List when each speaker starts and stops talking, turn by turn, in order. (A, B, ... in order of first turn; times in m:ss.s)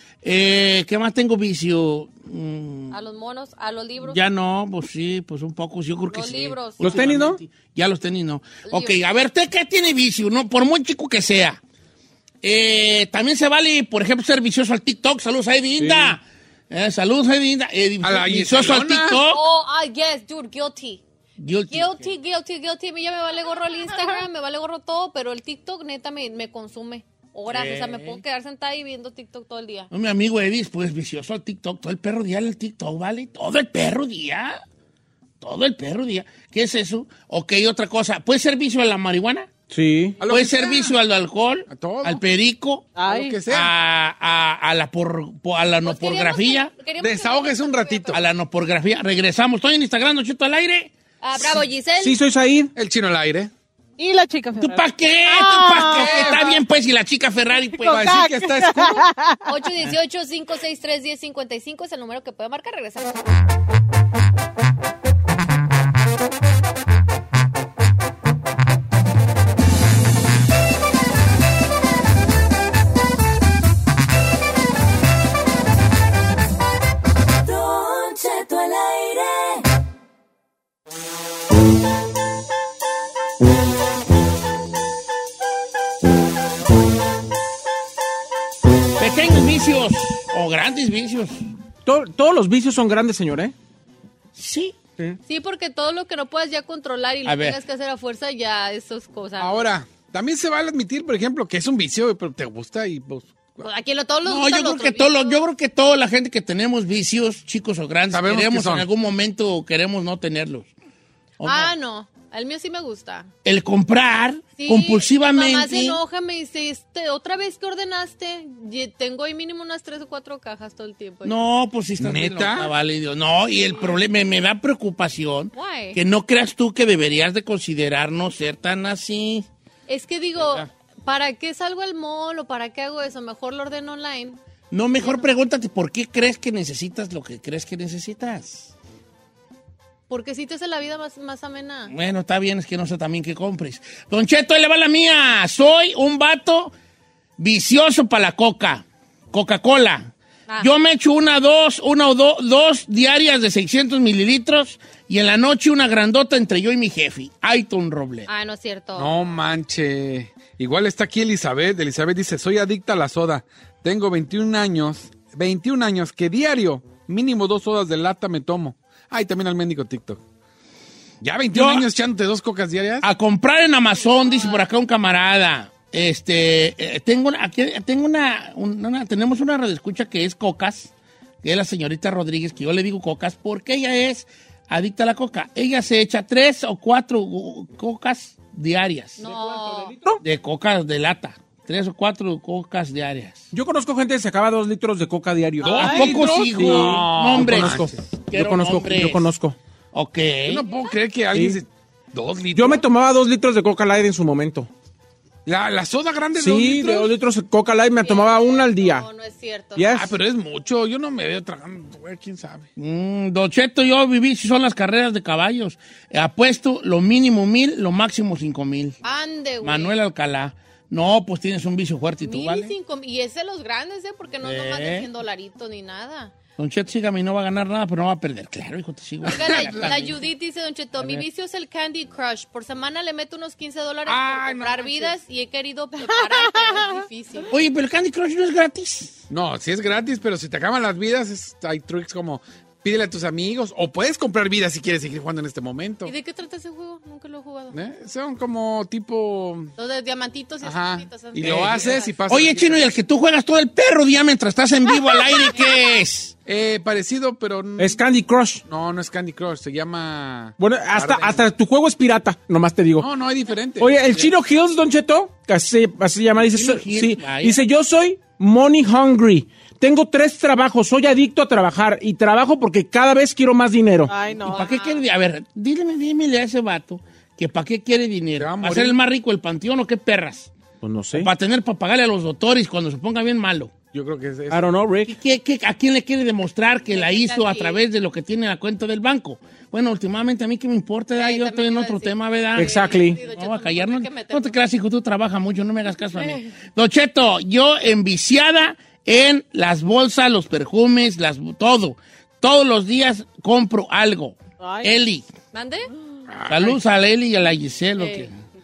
0:00.2-0:03.0 A
0:02.9-0:04.2 B
0:04.0-0:11.6 A
0:06.1-0:07.0 B
0:06.8-0:07.4 C
0:08.7-0:09.0 B
0:12.4-0:19.4 A
0:15.8-0:16.2 C
0:18.0-0:19.2 D
0:19.1-0:21.0 B
0:21.4-0:22.1 A
0:21.7-0:29.9 B
0:27.5-0:28.2 A
0:29.9-0:34.6 A
0:35.4-0:39.5 A
0:39.7-0:40.2 C
0:40.2-0:40.9 D
0:40.3-0:42.9 A
0:41.7-0:42.2 D
0:43.0-0:43.4 E
0:43.0-0:43.7 D
0:43.5-0:46.7 A
0:45.8-0:48.2 B
0:47.0-0:48.2 D
0:48.1-0:50.9 A
0:51.2-0:52.2 B
0:52.0-0:52.7 C
0:52.8-0:53.5 D
0:54.0-0:56.4 E
0:54.6-0:58.1 A
0:55.9-0:56.6 D
0:57.7-0:59.4 E
0:57.9-0:59.1 D
0:59.5-1:03.2 B
1:17.4-1:19.6 F
1:29.0-1:31.4 A
1:31.8-1:33.5 C
1:34.4-1:34.8 A
1:35.3-1:39.7 B
1:37.2-1:37.6 A
1:39.4-1:43.7 D
1:43.6-1:45.4 B
1:44.2-1:50.7 A
1:48.1-1:48.9 D
1:51.4-1:51.7 A
1:51.4-1:53.3 B
1:53.4-1:56.0 A
1:54.6-2:01.4 B
2:01.2-2:09.5 A
2:02.0-2:02.7 D
2:05.6-2:06.0 B
2:09.9-2:14.4 B
2:14.7-2:18.7 A
2:15.0-2:15.3 B
2:20.1-2:21.9 B
2:21.9-2:26.7 A
2:27.4-2:38.3 A
2:38.3-2:39.1 B
2:39.0-2:50.2 D
2:51.2-2:53.1 D
2:51.5-2:51.9 A
2:53.0-3:09.2 A
2:54.0-2:54.7 B
3:09.2-3:10.0 B
3:09.2-3:10.2 C
3:10.2-3:13.5 A
3:13.5-3:19.6 C
3:15.6-3:18.0 D
3:15.8-3:19.3 A
3:15.8-3:16.1 E
3:19.9-3:20.6 A
3:20.5-3:22.8 D
3:20.7-3:21.0 B
3:21.3-3:21.6 C
3:22.5-3:24.7 C
3:25.4-3:27.1 D
3:26.3-3:29.1 C
3:28.0-3:30.0 B
3:29.8-3:30.2 C
3:29.9-3:32.7 D
3:32.8-3:39.0 A
3:39.0-3:40.0 B
3:39.6-3:42.7 A
3:42.2-3:46.3 B
3:44.4-3:45.1 A
3:46.6-3:50.2 A
3:49.3-3:49.9 D
3:49.3-3:57.5 B
3:51.0-3:51.2 A
3:54.1-3:55.1 D
3:56.0-3:57.4 E
3:57.5-3:59.2 A
3:59.3-4:06.1 D
4:06.0-4:07.8 B
4:07.7-4:09.7 D
4:09.8-4:12.2 B
4:10.6-4:12.9 D
4:11.4-4:16.3 A
4:15.1-4:15.9 B
4:16.5-4:18.0 D
4:17.8-4:18.6 C
4:18.7-4:21.4 D
4:20.6-4:23.1 C
4:23.0-4:24.3 D
4:23.8-4:34.1 C
4:26.5-4:27.6 A
4:34.1-4:34.7 E
4:34.3-4:40.5 A
4:34.4-4:35.0 B
4:38.4-4:39.0 D
4:40.8-4:41.3 C
4:41.1-4:43.7 A
4:43.9-4:44.7 D
4:44.5-4:45.2 C
4:45.1-5:05.3 A
4:46.9-4:47.8 B
4:51.2-4:54.6 B
4:52.6-4:53.2 C
5:04.6-5:05.0 E
5:05.5-5:05.9 B
5:06.3-5:06.8 D
5:06.5-5:08.3 A
5:08.0-5:08.3 B